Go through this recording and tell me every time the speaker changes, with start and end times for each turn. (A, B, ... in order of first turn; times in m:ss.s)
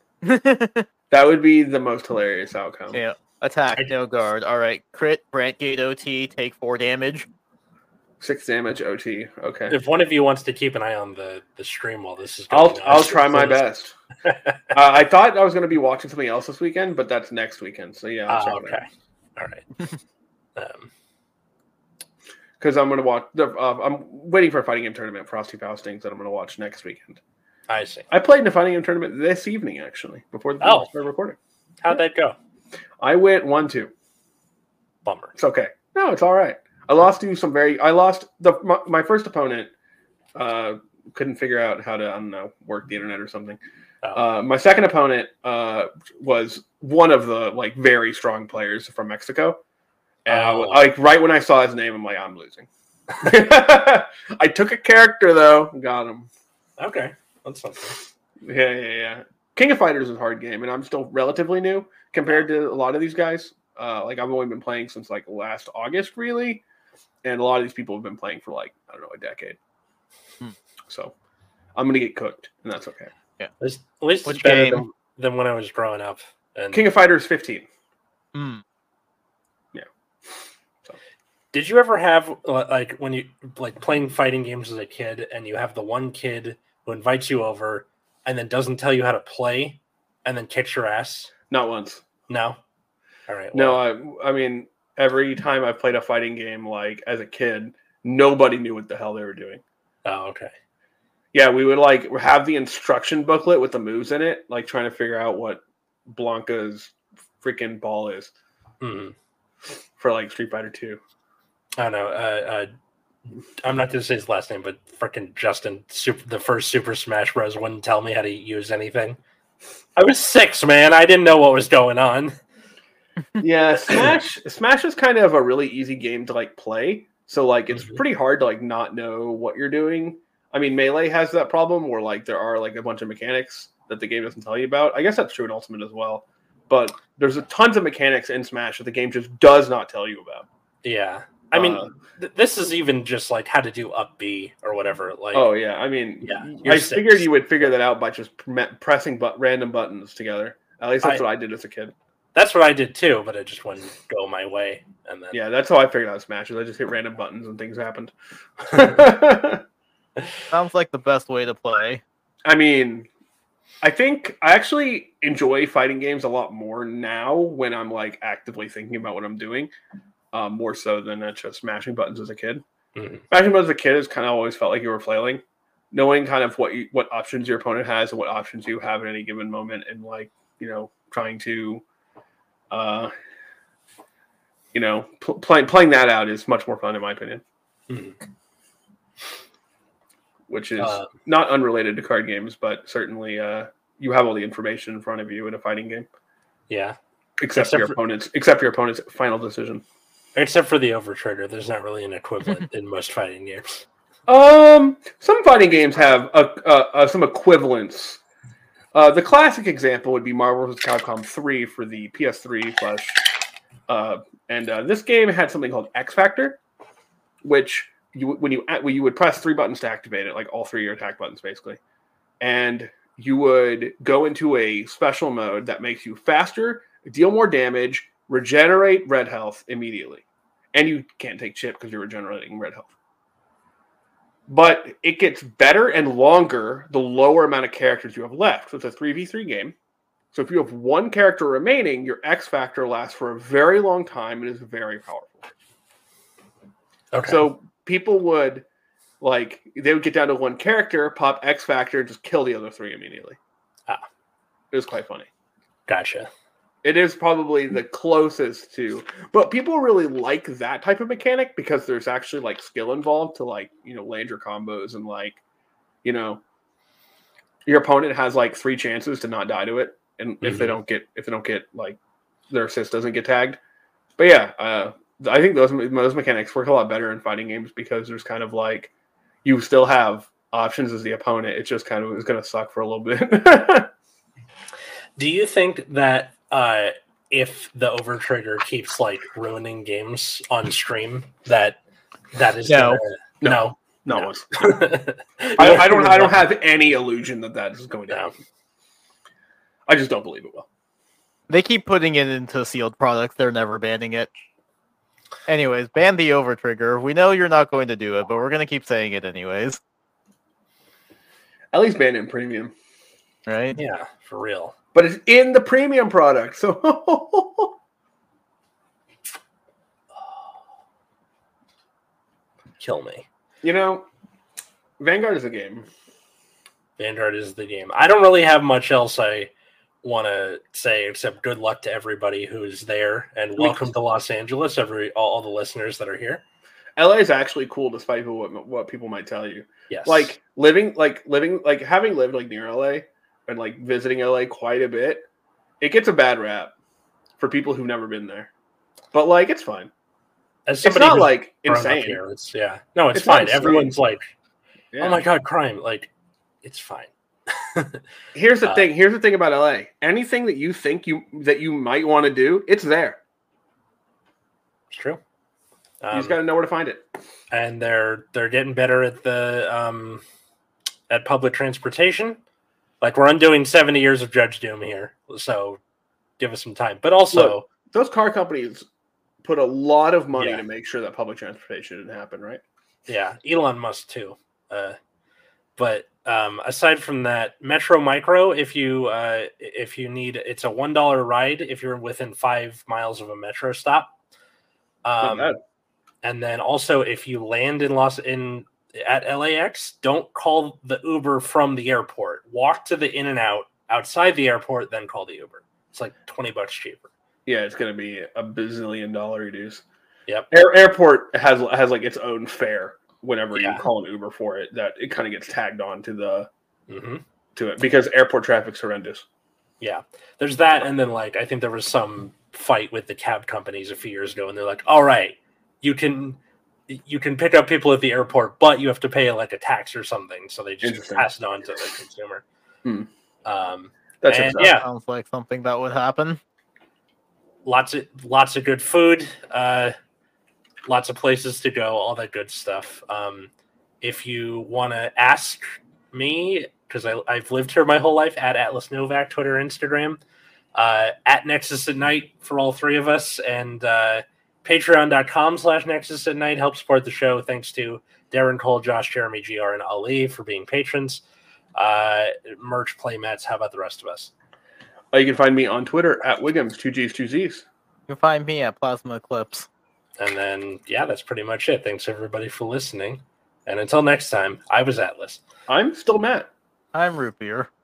0:00.2-0:00.9 A
0:01.1-0:03.0 B
0:02.9-0:07.3 A
0:08.2-0:09.8 B
0:09.7-0:13.6 C
0:12.5-0:13.9 B
0:14.2-0:14.6 C
0:14.7-0:18.8 B
0:18.3-0:19.6 C
0:20.6-0:20.9 C
0:22.6-0:27.2 B
0:27.7-0:28.0 C
0:28.1-0:31.4 B
0:30.6-0:30.9 C
0:31.8-0:32.4 C
0:33.0-0:33.9 B
0:35.0-0:35.3 C
0:35.4-0:39.7 B
0:40.3-0:43.6 B
0:44.2-0:49.6 B
0:50.2-0:52.7 B
0:50.3-0:50.9 C
0:53.2-0:56.3 B
0:56.8-0:58.0 C
0:58.4-1:06.6 B
1:07.2-1:09.6 B
1:10.9-1:11.1 B
1:11.8-1:13.1 B
1:13.6-1:16.8 C
1:14.2-1:14.8 A
1:16.7-1:17.7 B
1:18.3-1:18.6 A
1:21.5-1:31.3 C
1:31.5-1:32.0 B
1:32.3-1:32.6 C
1:33.3-1:33.8 C
1:33.5-1:39.6 B
1:40.0-1:40.5 C
1:41.3-1:48.3 B
1:48.8-1:49.1 C
1:50.0-1:51.0 B
1:51.8-1:52.7 C
1:53.6-1:59.2 C
2:00.0-2:02.4 C
2:03.4-2:20.4 B
2:07.7-2:08.0 C
2:20.8-2:25.5 C
2:21.5-2:21.9 B
2:25.3-2:31.9 B
2:26.2-2:27.2 C
2:32.3-2:35.4 C
2:35.3-2:39.6 B
2:40.5-2:42.0 A
2:42.4-2:43.1 B
2:43.8-2:49.7 B
2:50.3-2:52.6 B
2:52.9-2:53.2 C
2:53.3-3:01.8 B
3:02.7-3:03.1 B
3:04.7-3:07.4 B
3:07.9-3:08.2 C
3:10.5-3:16.1 B
3:10.8-3:11.1 C
3:16.7-3:17.0 C
3:17.4-3:19.8 B
3:17.5-3:18.0 C
3:20.4-3:23.9 C
3:24.3-3:28.2 B
3:28.9-3:33.2 B
3:33.9-3:36.6 B
3:37.4-3:41.8 B
3:42.4-3:52.9 B
3:54.5-3:59.7 B
4:00.3-4:05.5 B
4:07.1-4:07.5 C
4:07.3-4:08.6 B
4:09.2-4:13.4 B
4:14.7-4:15.3 B
4:15.9-4:16.3 C
4:16.8-4:25.4 B
4:26.0-4:26.4 B
4:27.6-4:32.0 B
4:30.4-4:30.7 C
4:32.5-4:33.6 B
4:34.2-4:38.9 B
4:39.4-4:43.9 B
4:45.2-4:51.8 C
4:52.3-4:56.4 C
4:52.7-4:53.0 A
4:53.4-4:54.5 B
4:55.6-4:58.2 B
4:59.9-5:00.7 B
5:01.5-5:04.3 A
5:05.5-5:09.8 A
5:11.7-5:12.7 B
5:13.4-5:13.8 A
5:13.8-5:14.7 C
5:14.9-5:17.7 B
5:22.8-5:23.2 C
5:23.6-5:24.1 B
5:25.0-5:25.9 B
5:27.0-5:29.5 C
5:30.0-5:36.4 C
5:33.6-5:33.9 B
5:37.0-5:45.3 B
5:39.9-5:40.3 C
5:45.8-5:46.7 B
5:47.4-5:48.5 B
5:49.1-5:49.9 B
5:50.6-5:54.3 C
5:50.8-5:52.2 B
5:53.1-5:53.9 B
5:54.9-5:55.2 B
5:55.0-5:56.1 C
5:56.6-5:58.0 C
5:58.3-6:03.2 B
6:04.9-6:05.2 C
6:06.0-6:06.4 C
6:06.1-6:07.0 B
6:07.5-6:10.2 C
6:11.1-6:12.4 C
6:13.0-6:15.8 C
6:16.4-6:17.6 C
6:17.3-6:18.8 B
6:19.4-6:22.6 B
6:20.3-6:20.6 C
6:23.1-6:25.0 C
6:25.8-6:34.1 C
6:35.0-6:35.5 C
6:35.2-6:35.6 B
6:36.2-6:47.1 C
6:47.4-6:49.8 B
6:50.5-6:56.5 B
6:53.6-6:53.8 C
6:56.9-6:57.2 C
6:57.6-6:59.2 B
6:59.8-7:12.4 C
7:10.8-7:11.3 B
7:13.4-7:14.9 C
7:14.2-7:14.7 B
7:14.6-7:16.4 A
7:17.6-7:20.0 C
7:20.9-7:30.2 C
7:30.7-7:41.2 C
7:41.8-7:44.3 C
7:45.1-7:47.6 B
7:48.1-7:49.7 A
7:50.2-7:55.4 C
7:55.7-7:56.5 B
7:56.9-7:57.7 A